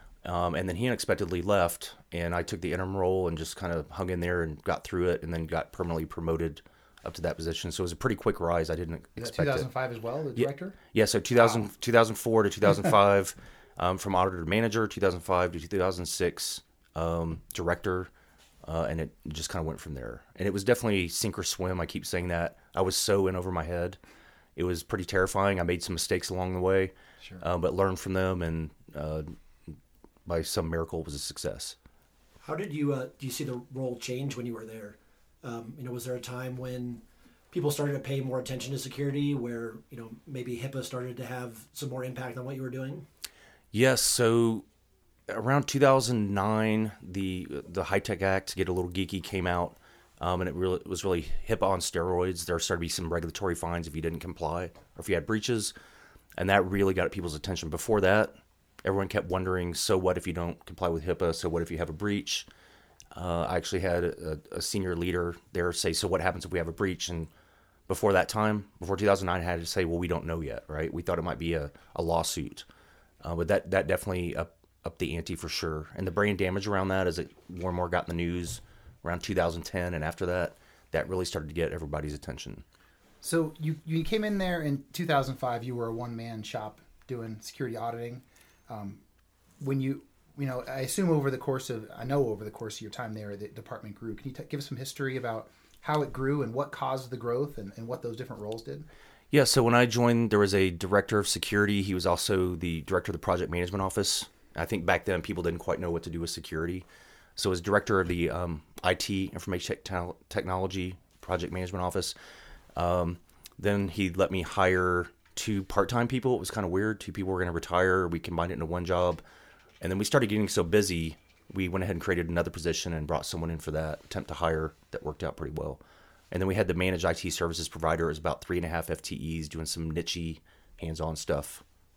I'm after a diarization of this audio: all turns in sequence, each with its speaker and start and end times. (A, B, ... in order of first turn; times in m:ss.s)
0:00.2-0:09.7 A
0:09.2-0:10.8 B
0:10.4-0:18.1 A
0:11.4-0:11.6 B
0:18.6-0:24.0 A
0:24.6-0:29.3 A
0:30.3-0:31.8 A
0:32.4-0:43.1 C
0:43.7-0:44.6 A
0:45.3-0:55.7 A
0:56.4-1:02.5 A
1:03.1-1:07.3 A
1:07.9-1:12.6 A
1:13.2-1:22.6 A
1:23.2-1:29.0 B
1:29.6-1:38.9 B
1:39.3-1:46.9 A
1:47.4-1:52.1 A
1:52.8-1:59.2 A
1:59.8-2:11.6 A